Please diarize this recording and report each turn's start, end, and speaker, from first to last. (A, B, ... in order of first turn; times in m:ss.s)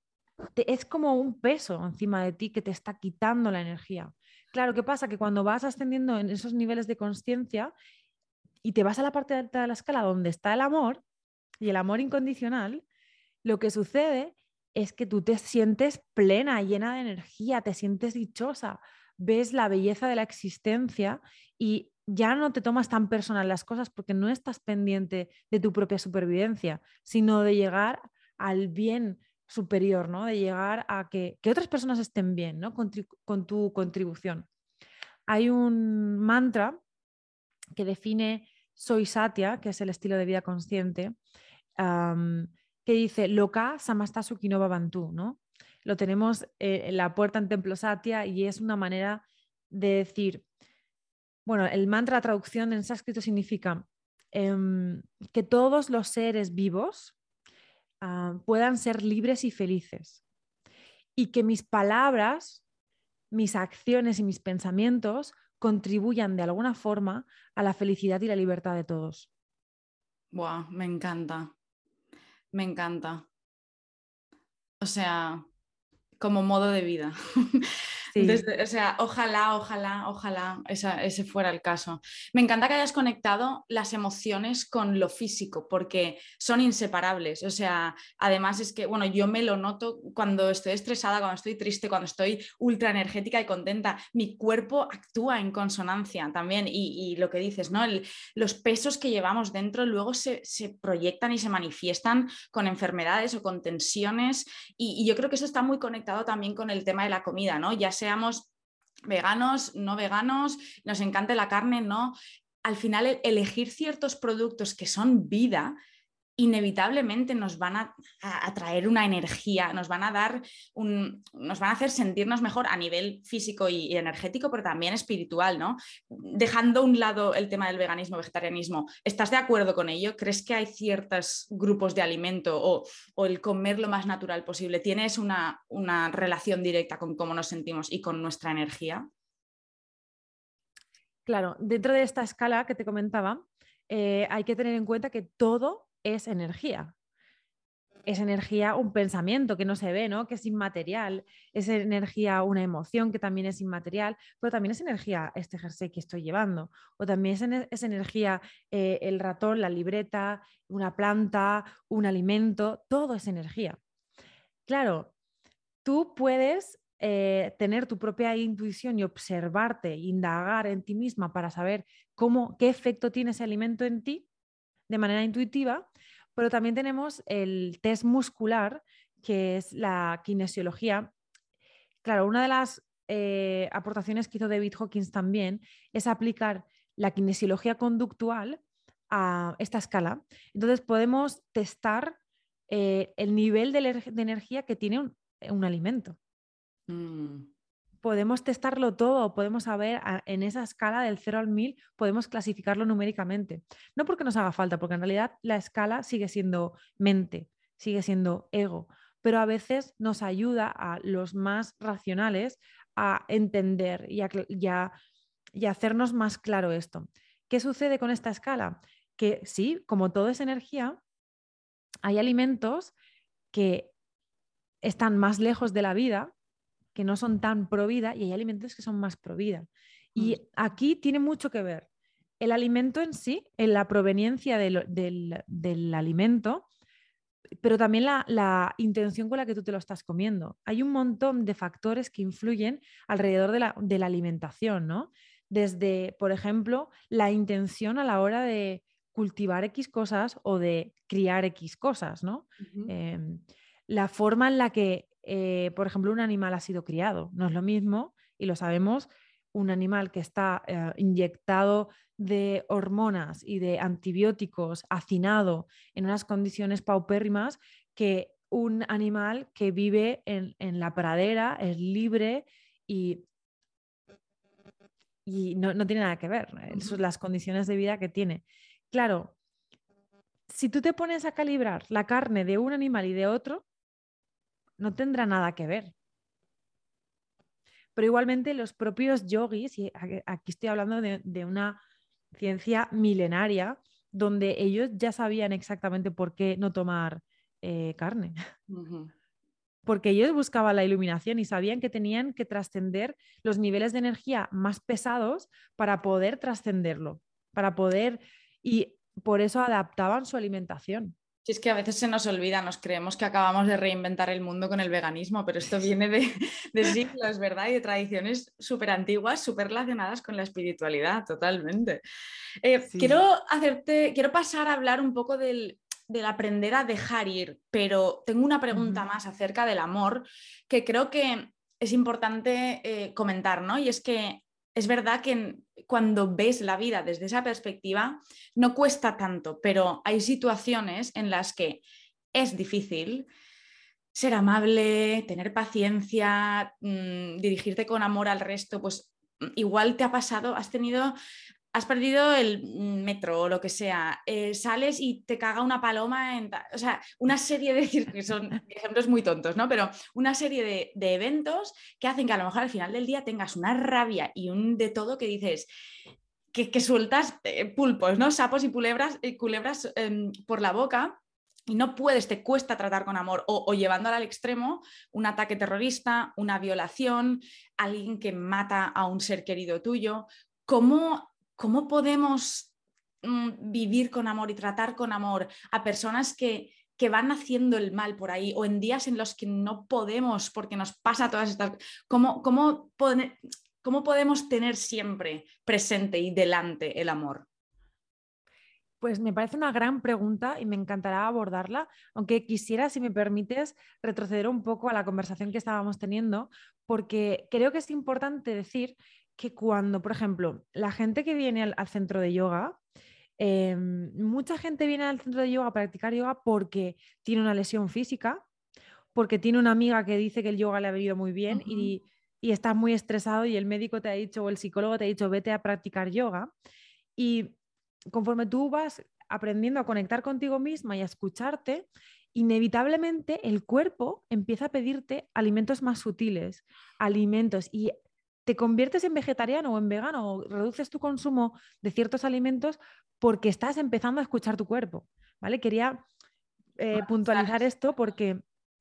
0:00.6-0:07.7 A
0:08.6-0:11.0 A
0:11.6-0:12.8 A
0:13.4-0:34.4 A
0:35.3-0:36.8 A
0:37.7-0:41.2 A
0:41.8-0:50.4 A
0:51.4-0:57.1 A
0:58.0-1:00.2 A
1:01.2-1:02.6 A
1:03.3-1:09.3 A
1:10.3-1:11.5 B
1:12.5-1:13.2 B
1:14.8-1:15.4 B
1:16.2-1:48.5 B
1:18.1-1:18.4 A
1:49.1-1:55.8 B
1:56.4-2:19.0 B
2:21.2-2:26.9 A
2:28.0-2:43.8 A
2:44.7-2:45.1 A
2:45.8-2:54.2 A
2:54.9-3:01.1 A
3:02.0-3:12.2 A
3:12.7-3:16.2 A
3:16.9-3:17.5 B
3:18.0-3:34.9 A
3:35.5-3:41.0 A
3:42.0-3:42.9 A
3:43.5-3:43.9 A
3:44.8-3:46.3 A
3:46.9-3:51.9 A
3:52.4-3:56.6 A
3:57.6-4:33.2 A
4:12.6-4:12.9 B
4:35.2-4:39.3 A
4:36.7-4:37.0 B
4:40.5-4:43.6 A
4:44.8-4:45.9 A
4:47.9-4:51.8 A
4:52.3-4:58.4 A
4:58.7-4:59.1 B
4:59.8-5:11.1 A
5:11.4-5:22.0 B
5:22.6-5:43.3 B
5:22.9-5:23.2 A
5:28.7-5:29.0 A
5:44.1-5:51.1 B
5:51.7-6:05.7 B
6:06.5-6:22.7 B
6:23.2-6:37.5 B
6:39.0-6:52.8 A
6:53.4-6:58.4 A
6:59.1-7:06.5 A
7:01.5-7:01.9 B
7:07.2-7:07.5 A
7:08.1-7:17.9 A
7:18.4-7:26.0 A
7:26.8-7:28.4 A
7:26.9-7:27.5 B